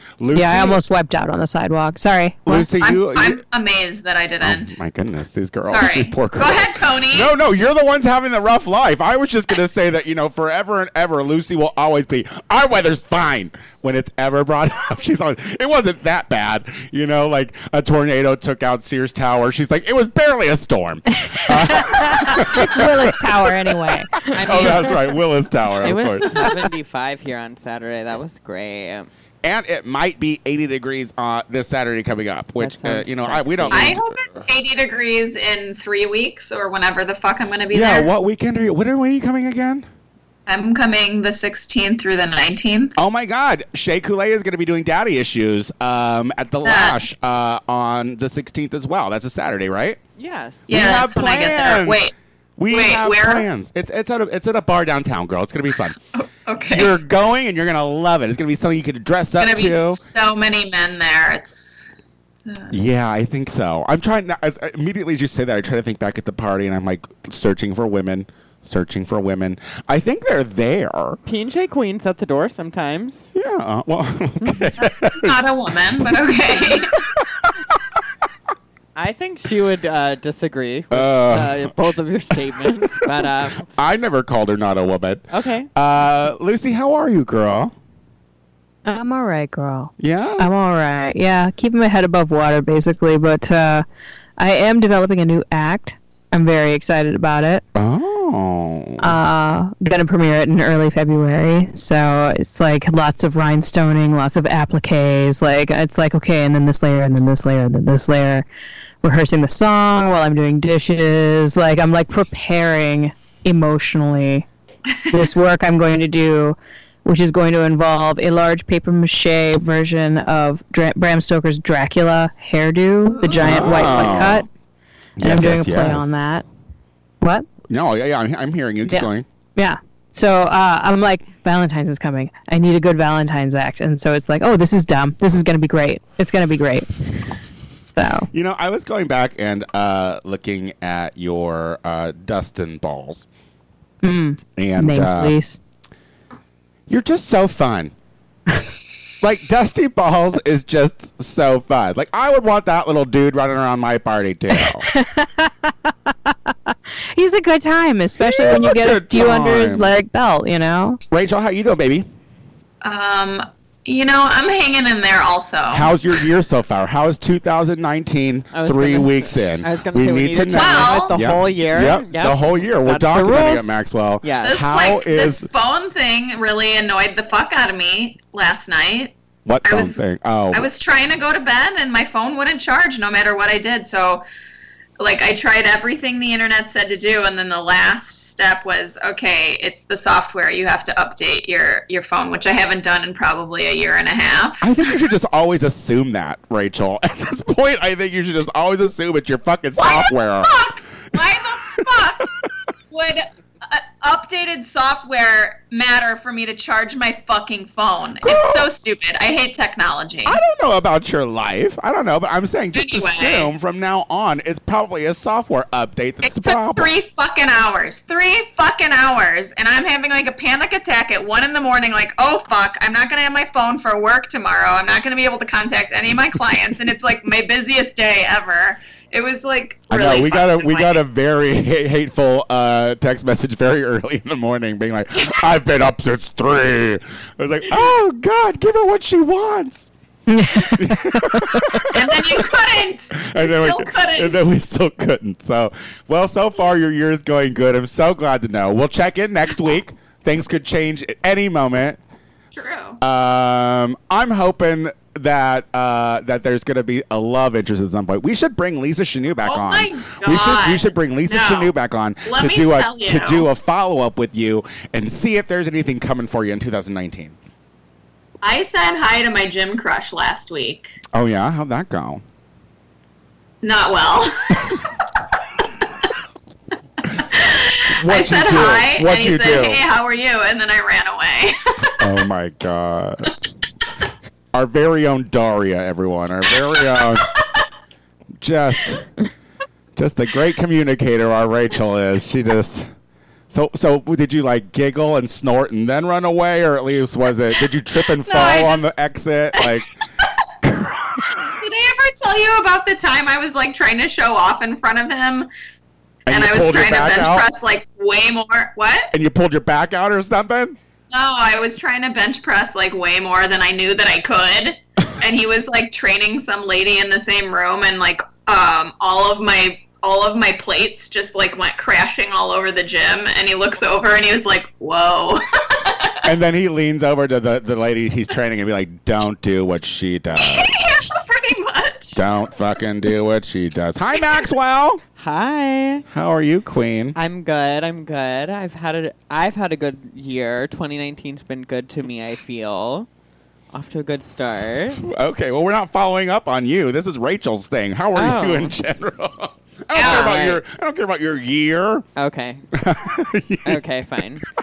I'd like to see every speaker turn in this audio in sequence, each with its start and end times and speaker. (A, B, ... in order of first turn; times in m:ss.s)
0:00.2-0:00.8 A
0:00.3-0:02.7 B
0:02.4-0:03.4 A
0:02.7-0:04.8 C
0:04.4-0:26.5 A
0:05.6-0:07.3 C
0:21.2-0:25.0 B
0:24.3-0:25.0 D
0:25.8-0:29.1 D
0:29.4-0:34.1 A
0:32.6-0:34.0 D
0:33.7-0:38.1 C
0:37.7-0:39.8 A
0:40.4-0:43.0 C
0:43.0-0:50.0 A
0:46.6-0:47.0 C
0:50.2-0:50.8 D
0:50.7-0:52.1 C
0:50.7-0:52.0 A
0:52.6-0:56.0 A
0:52.7-0:53.4 C
0:56.1-0:56.9 C
0:56.7-1:00.0 A
0:59.4-1:01.9 C
1:02.4-1:02.7 C
1:02.7-1:11.2 A
1:11.2-1:13.3 D
1:13.3-1:16.2 A
1:15.2-1:17.0 C
1:17.2-1:17.8 A
1:18.9-1:23.7 D
1:20.9-1:21.7 A
1:23.7-1:27.7 A
1:25.3-1:25.7 D
1:28.8-1:33.8 B
1:30.0-1:30.5 A
1:34.4-1:37.6 B
1:37.7-1:39.2 A
1:39.0-1:48.4 B
1:49.0-1:54.4 B
1:54.9-1:55.3 C
1:55.1-2:04.5 B
2:03.2-2:04.0 C
2:03.4-2:04.4 A
2:05.2-2:06.2 A
2:05.2-2:06.4 B
2:07.7-2:09.2 A
2:08.9-2:17.3 B
2:18.0-2:18.3 B
2:18.3-2:23.2 A
2:24.0-2:25.6 B
2:24.6-2:25.4 A
2:26.9-2:27.9 A
2:29.2-2:34.9 A
2:34.5-2:41.0 B
2:38.2-2:39.9 A
2:41.1-2:42.1 A
2:42.8-2:46.0 C
2:45.7-2:55.5 A
2:48.5-2:54.7 D
2:50.5-2:51.3 C
2:54.4-3:04.2 C
2:59.4-3:00.7 A
3:05.0-3:14.7 C
3:14.6-3:20.6 A
3:19.8-3:22.3 C
3:22.9-3:30.4 C
3:28.2-3:28.7 A
3:30.2-3:36.9 A
3:32.7-3:33.5 C
3:36.2-3:51.0 C
3:49.9-3:59.9 A
4:00.3-4:01.9 B
4:00.6-4:02.4 A
4:01.9-4:04.4 C
4:03.1-4:12.0 A
4:12.5-4:13.0 C
4:13.0-4:27.4 A
4:19.4-4:21.7 C
4:22.2-4:23.5 C
4:28.4-4:31.0 C
4:31.1-4:32.2 A
4:33.6-4:34.9 C
4:37.1-4:42.0 C
4:37.9-4:39.8 A
4:42.0-4:43.3 A
4:44.5-4:47.3 A
4:48.4-4:49.1 A
4:50.0-4:52.9 A
4:53.5-4:59.9 A
4:58.2-4:58.9 C
5:00.6-5:01.6 A
5:01.6-5:05.5 C
5:06.3-5:07.5 A
5:06.3-5:09.1 C
5:09.1-5:10.8 A
5:11.1-5:26.2 C
5:26.2-5:30.8 A
5:30.4-5:32.2 C
5:32.1-5:35.0 A
5:35.2-5:36.0 D
5:36.1-5:37.2 A
5:37.1-5:43.1 D
5:43.7-5:45.0 D
5:45.0-5:52.0 A
5:48.1-5:48.8 D
5:49.9-5:50.4 C
5:50.0-5:50.6 D
5:52.2-5:52.6 D
5:52.7-5:53.8 A
5:53.6-5:54.4 D